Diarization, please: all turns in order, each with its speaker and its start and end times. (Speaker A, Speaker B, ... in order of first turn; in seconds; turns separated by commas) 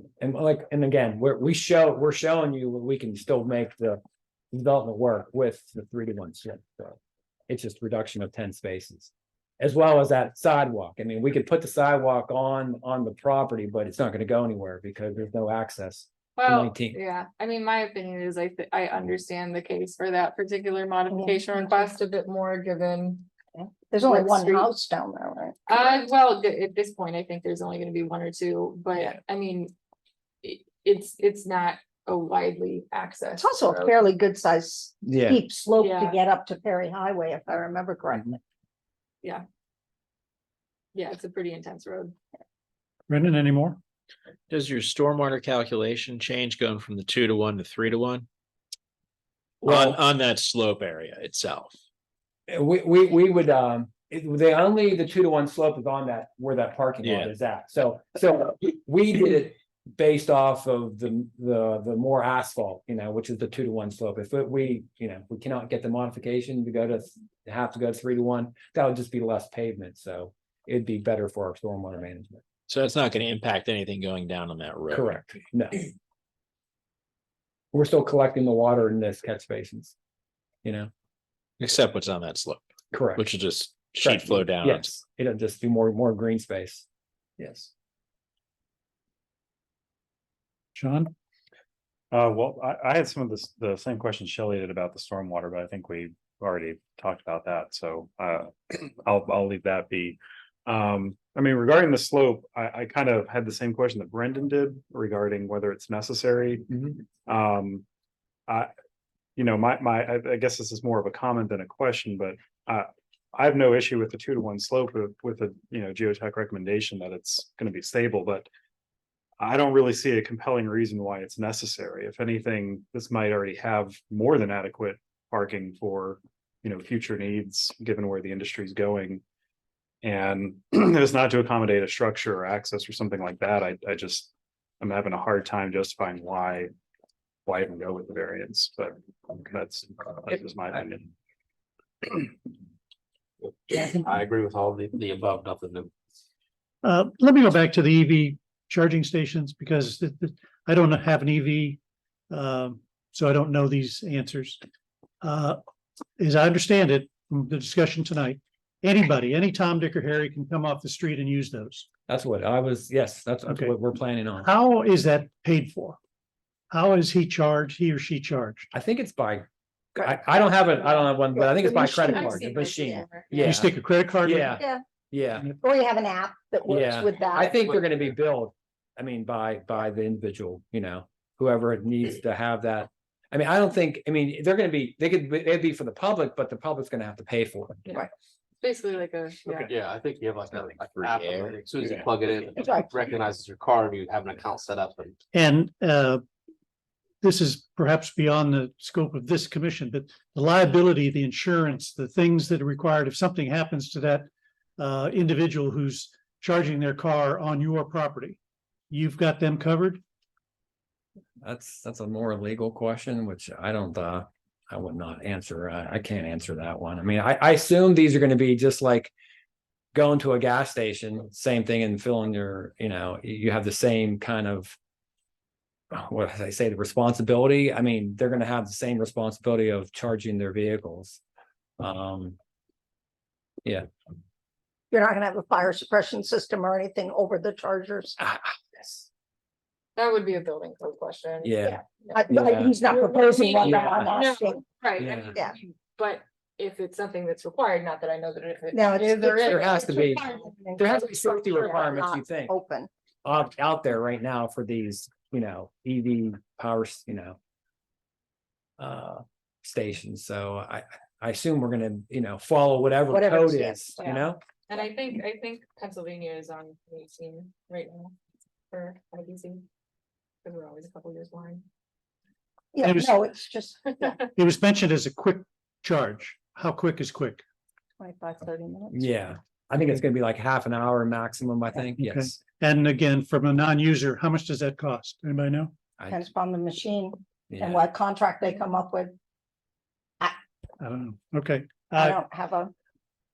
Speaker A: 0.2-4.0, Speaker A: 4.5-7.0, Speaker A: 7.5-17.0, Speaker B: 16.4-23.3, Speaker C: 21.1-21.9, Speaker C: 23.6-25.6, Speaker B: 24.0-24.7, Speaker B: 25.7-29.7, Speaker B: 30.4-34.0, Speaker C: 33.4-38.4, Speaker A: 35.0-35.4, Speaker B: 35.8-36.2, Speaker B: 40.9-42.2, Speaker D: 43.1-43.8, Speaker E: 44.5-48.3, Speaker E: 49.6-51.8, Speaker A: 49.6-50.0, Speaker A: 52.5-72.4, Speaker E: 57.0-57.3, Speaker E: 72.7-75.1, Speaker A: 74.9-75.9, Speaker A: 77.7-80.0, Speaker A: 80.6-80.9, Speaker E: 81.6-85.0, Speaker A: 82.9-83.3, Speaker A: 84.0-86.9, Speaker A: 87.4-87.7, Speaker D: 90.8-91.1, Speaker F: 92.1-106.7, Speaker F: 107.2-107.8, Speaker F: 109.4-118.5, Speaker F: 119.4-129.2, Speaker F: 130.0-136.7, Speaker F: 137.5-141.1, Speaker G: 143.4-145.9, Speaker D: 146.8-151.8, Speaker D: 152.3-154.6, Speaker D: 155.2-155.6, Speaker D: 156.2-161.9, Speaker A: 162.1-164.5, Speaker D: 163.5-163.7, Speaker D: 164.4-166.0, Speaker D: 166.7-168.7, Speaker A: 168.7-175.5, Speaker C: 170.0-170.4, Speaker C: 171.3-173.0, Speaker B: 172.1-173.5, Speaker D: 173.4-174.6, Speaker C: 174.5-174.8, Speaker C: 175.6-177.6, Speaker A: 176.7-187.8, Speaker B: 188.6-189.7, Speaker G: 189.6-195.2, Speaker E: 190.6-192.1, Speaker C: 192.6-192.9, Speaker D: 195.3-196.2, Speaker D: 197.2-208.4, Speaker D: 208.9-210.0, Speaker A: 211.4-219.1, Speaker A: 219.9-224.8, Speaker A: 225.9-231.2, Speaker A: 231.8-232.4, Speaker C: 234.9-238.2, Speaker A: 238.2-239.1, Speaker B: 240.0-242.2, Speaker A: 241.4-241.8, Speaker C: 241.7-244.6, Speaker A: 242.3-242.8, Speaker B: 242.8-250.5, Speaker A: 243.6-244.1, Speaker A: 245.0-245.4, Speaker C: 248.7-252.9, Speaker A: 249.4-252.5, Speaker A: 253.2-257.4, Speaker A: 258.8-264.4, Speaker C: 263.1-264.1, Speaker B: 264.0-268.2, Speaker B: 268.7-269.7, Speaker B: 270.4-271.7, Speaker C: 272.7-274.2, Speaker D: 272.8-273.3, Speaker D: 274.3-277.4, Speaker C: 278.0-279.2, Speaker A: 278.9-282.4, Speaker D: 282.0-285.8, Speaker C: 286.1-289.1, Speaker A: 287.5-287.8, Speaker D: 290.8-292.2, Speaker C: 291.9-292.7